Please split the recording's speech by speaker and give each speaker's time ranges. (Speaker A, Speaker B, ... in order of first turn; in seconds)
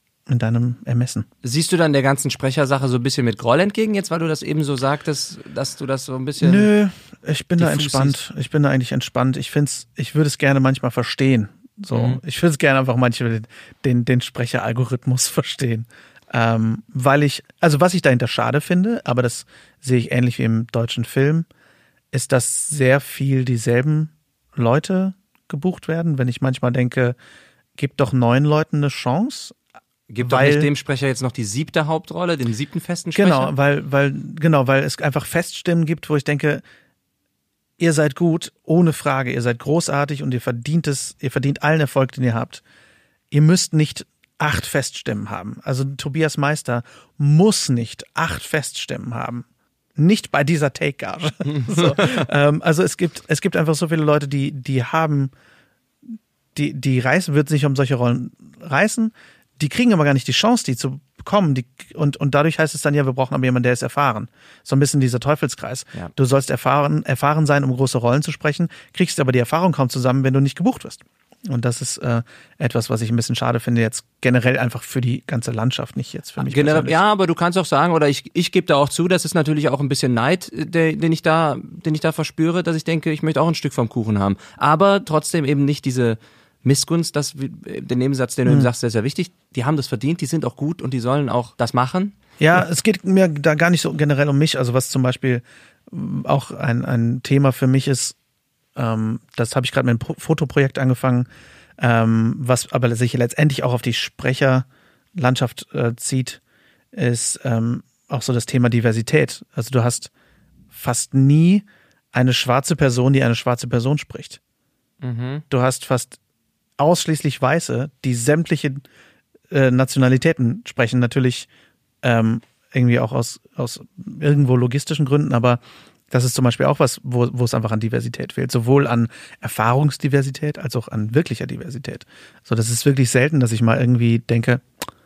Speaker A: 0.3-1.3, 6.4-21.5, 22.1-27.2, 27.8-29.6, 30.2-30.7, 33.1-36.6, 37.8-42.6, 43.3-55.3, 56.5-77.0, 92.4-98.2, 98.8-101.3, 101.8-106.4, 106.9-110.1, 110.7-114.4, 115.5-116.2, 116.8-118.8, 119.5-121.5, 122.0-134.7
Speaker B: 1.4-6.7, 7.6-8.2, 11.9-12.2, 30.1-33.5, 76.4-92.2, 115.0-115.4